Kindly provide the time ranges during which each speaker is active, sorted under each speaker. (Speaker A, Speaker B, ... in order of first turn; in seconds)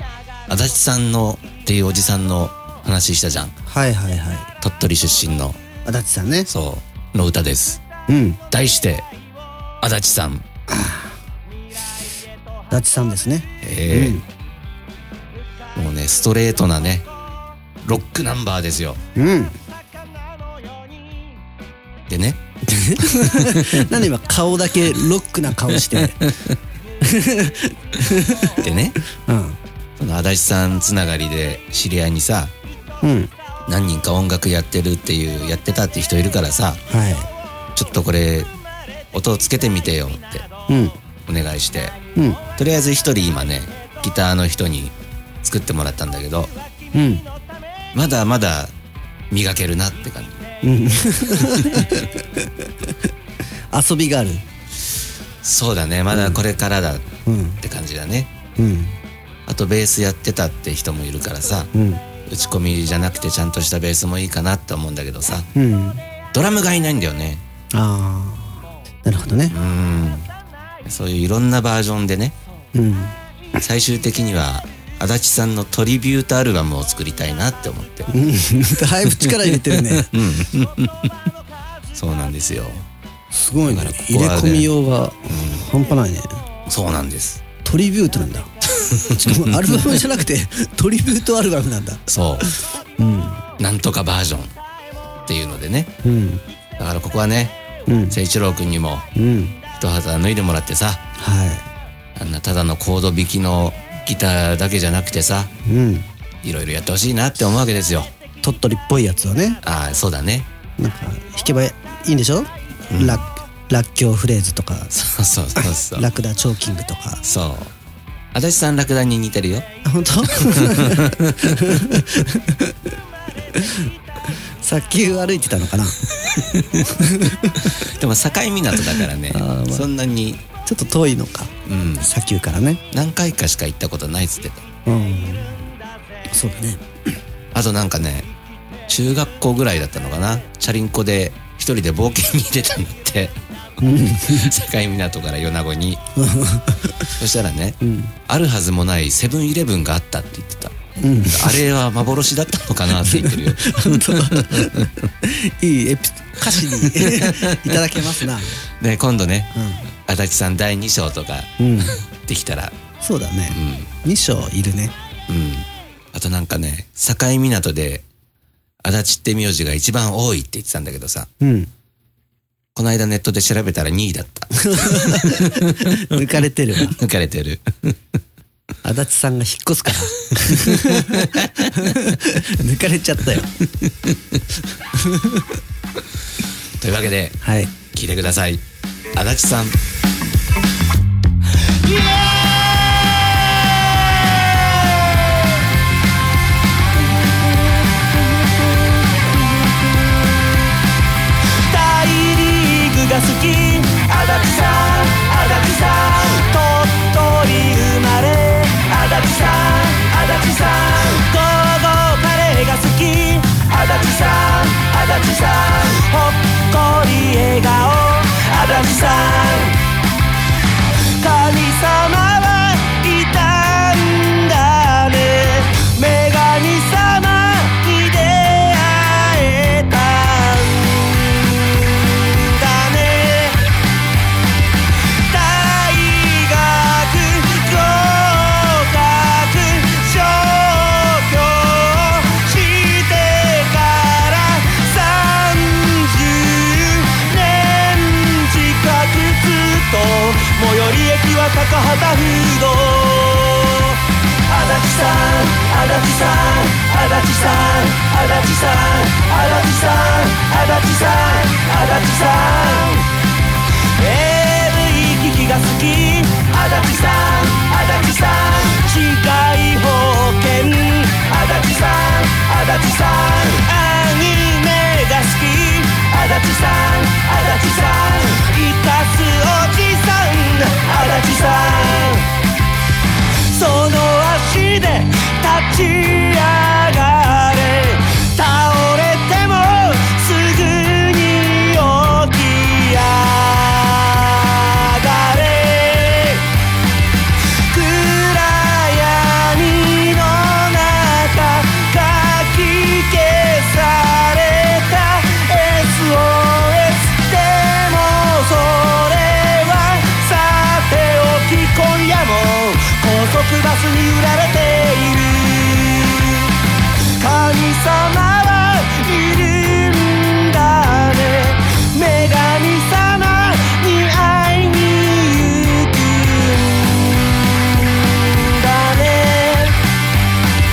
Speaker A: 0.5-3.5, 4.6-5.6, 6.5-7.8, 8.5-9.1, 9.8-10.4, 13.6-14.2, 15.7-17.1, 17.8-19.0, 22.1-22.4, 23.3-23.9, 28.6-29.0, 30.0-32.5, 33.7-36.8, 37.7-38.5, 39.1-40.5, 41.3-41.9, 42.5-46.5, 47.9-48.7, 49.3-50.4, 51.4-51.9, 55.4-57.1, 57.6-58.3, 59.5-61.7, 62.3-65.5, 66.3-67.4, 69.5-70.3, 70.8-72.3, 73.6-78.1, 79.2-81.1, 81.9-82.8, 83.7-84.7, 85.3-85.6, 86.7-87.4, 88.8-90.0, 92.1-92.5, 93.6-94.5, 95.3-95.9, 96.8-97.5, 98.1-99.1, 99.8-101.0, 102.2-105.5, 106.4-108.1, 109.6-110.5, 112.9-113.2, 114.9-116.1, 117.2-117.7, 118.3-119.7, 120.3-121.8, 126.2-130.4, 131.7-132.1, 132.9-134.6, 137.5-138.3, 138.9-143.3, 144.2-146.0, 147.2-154.9, 156.8-158.0, 158.8-159.5, 160.1-162.7, 163.5-163.9, 165.3-168.0, 168.8-171.3, 172.7-176.1, 176.8-177.9, 180.5-182.0, 186.8-187.4, 187.9-188.6, 189.1-189.8
Speaker B: 3.7-4.5, 5.8-6.5, 8.1-8.4, 10.7-11.1, 12.7-14.2, 19.1-19.6, 22.6-26.3, 27.0-28.6, 29.1-29.6, 33.0-33.3, 36.9-37.3, 40.7-41.0, 42.1-42.4, 46.9-47.2, 50.6-52.9, 53.7-54.4, 56.1-56.4, 57.2-57.6, 58.5-59.0, 61.7-62.0, 65.5-66.0, 67.7-69.5, 72.7-73.2, 78.1-80.1, 83.3-86.4, 87.6-88.5, 89.1-93.4, 96.0-96.4, 97.9-98.2, 99.1-99.6, 101.2-101.7, 105.6-106.1, 108.4-109.6, 110.8-114.9, 115.6-117.2, 119.8-123.0, 123.5-126.0, 126.9-127.7, 128.9-129.9, 130.6-132.8, 134.8-135.7, 136.3-136.8, 143.8-144.5, 146.2-147.1, 147.8-148.1, 151.0-151.6, 153.0-158.6, 159.5-159.9, 161.6-162.0, 163.0-164.9, 171.4-171.7, 174.6-177.0, 178.8-183.6, 184.9-185.6, 187.4-187.7
Speaker C: 191.8-193.0, 201.7-219.7, 221.2-233.6, 235.3-254.0, 254.5-263.0, 264.0-282.2, 283.5-296.4, 297.7-316.5, 317.2-327.1, 327.7-329.8